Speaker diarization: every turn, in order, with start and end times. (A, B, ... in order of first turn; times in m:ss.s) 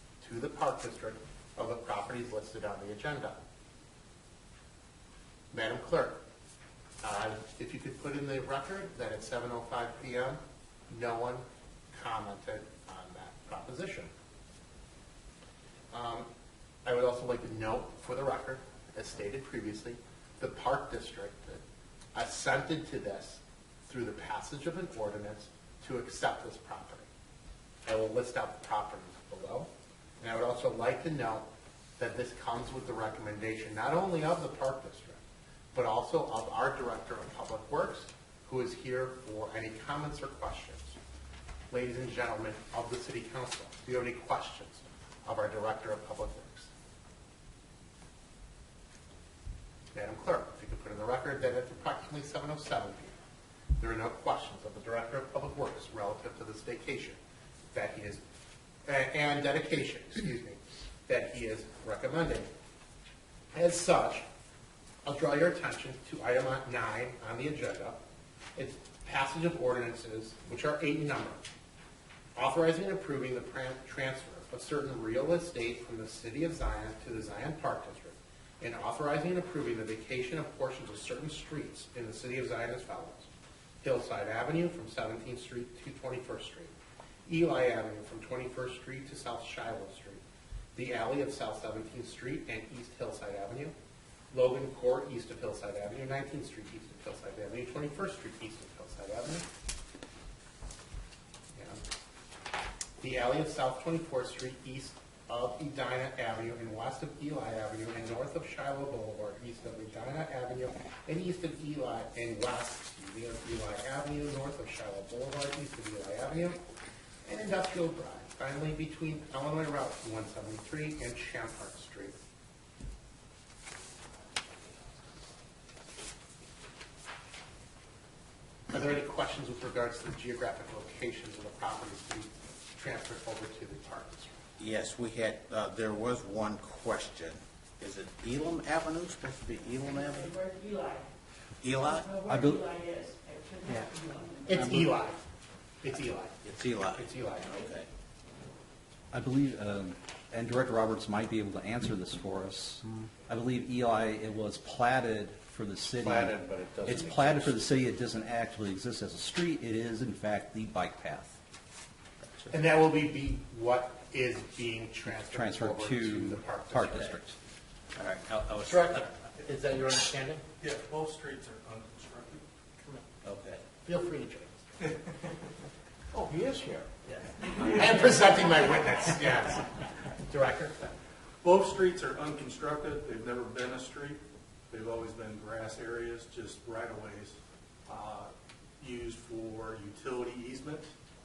0:00.2-0:03.4 A
0:05.5-0:06.2 A
0:07.0-0:14.1 A
0:15.9-0:16.3 A
0:16.9-0:21.6 A
0:22.1-0:27.1 A
0:27.9-0:29.7 A
0:30.2-0:31.5 A
0:32.0-0:35.2 A
0:35.7-0:41.0 A
0:41.7-0:46.7 A
0:49.9-0:53.2 A
0:53.8-0:57.2 A
0:57.7-0:58.2 A
0:58.9-1:02.5 A
1:03.5-1:04.3 A
1:05.0-1:08.0 A
1:08.6-1:11.4 A
1:12.4-1:23.3 A
1:23.8-1:26.7 A
1:27.3-1:30.2 A
1:30.8-1:33.7 A
1:34.3-1:39.5 A
1:41.5-1:41.8 A
1:43.0-1:56.6 A
1:57.2-2:02.2 A
2:08.7-2:14.4 A
2:14.6-2:20.3 B
2:19.9-2:21.1 C
2:21.6-2:22.2 B
2:21.8-2:25.0 C
2:22.3-2:22.7 D
2:24.5-2:25.2 A
2:24.6-2:24.9 D
2:25.8-2:27.6 A
2:26.4-2:27.9 B
2:29.1-2:41.4 D
2:36.0-2:37.5 B
2:42.5-2:47.2 A
2:45.1-2:47.4 D
2:48.0-2:49.1 B
2:48.7-2:50.4 A
2:50.6-2:52.4 E
2:53.2-2:53.6 B
2:53.8-2:54.7 A
2:54.8-2:55.1 E
2:56.5-3:00.9 A
2:57.6-2:58.4 E
3:01.4-3:10.9 E